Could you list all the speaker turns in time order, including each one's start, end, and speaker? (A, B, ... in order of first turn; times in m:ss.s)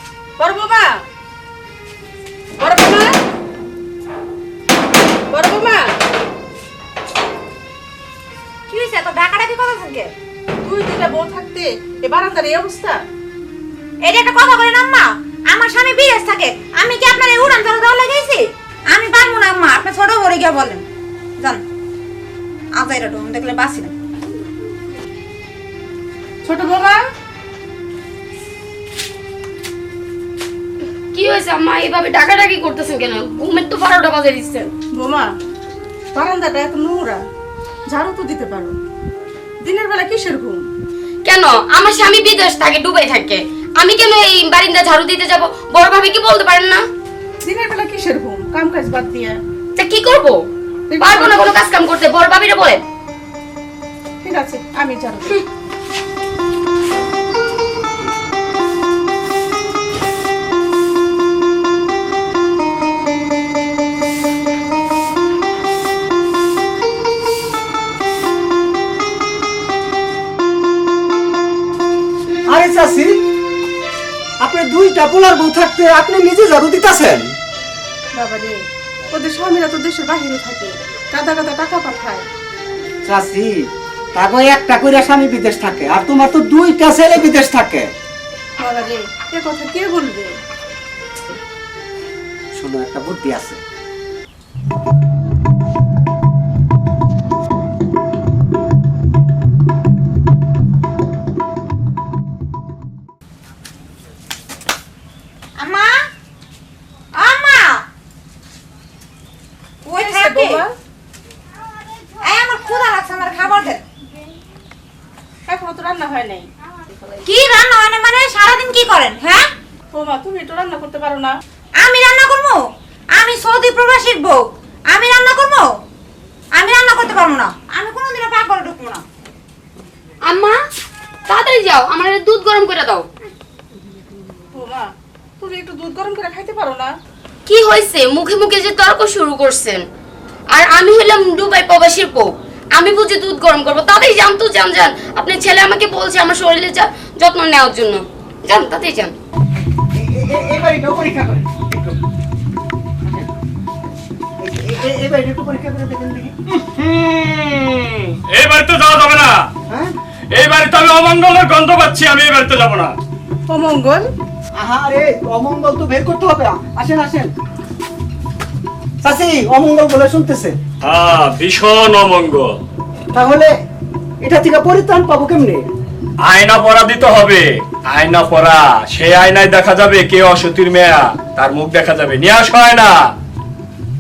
0:00.4-0:01.0 A
0:02.6-0:03.2 A
0:05.3-0:05.9 A
0:08.7-0:10.1 B
0:10.6-0:13.0 A
0:14.0-0:20.8 B
0:22.8-0:23.9 B
0:26.4-0:27.0 A
0:31.1-0:34.7 C
0:34.9-0:35.3 A
0:36.1-0:37.2 A
0:37.9-0:38.7 A
0:39.6-0:40.7 A
0:41.2-0:46.8 C
0:47.4-0:49.4 A
0:49.8-0:50.4 C
0:50.9-0:51.6 A
0:51.0-0:52.8 C
0:54.2-0:55.4 A
1:12.5-1:13.2 D
1:14.4-1:17.3 D
1:18.1-1:18.6 A
1:19.1-1:22.2 A
1:23.0-1:23.6 D
1:24.2-1:27.9 D
1:28.6-1:30.3 A
1:32.5-1:33.6 D
1:45.6-1:46.0 B
1:47.1-1:47.8 B
1:49.8-1:50.6 B
1:49.9-1:50.7 A
1:52.2-1:53.8 B
1:55.5-1:56.5 A
1:57.2-1:59.5 B
1:59.9-2:01.3 A
2:01.8-2:05.7 B
2:06.5-2:09.0 B
2:10.3-2:10.6 C
2:11.3-2:13.0 C
2:14.5-2:14.9 A
2:15.4-2:16.9 A
2:17.5-2:19.8 C
2:20.5-2:29.1 C
2:29.9-2:32.0 D
2:34.4-2:37.8 D
2:38.3-2:39.4 E
2:40.3-2:43.0 E
2:43.5-2:44.1 A
2:44.6-2:47.3 D
2:49.0-2:50.6 D
2:50.8-2:52.6 E
2:53.1-2:53.5 D
2:54.2-2:55.6 D
2:56.3-3:03.0 E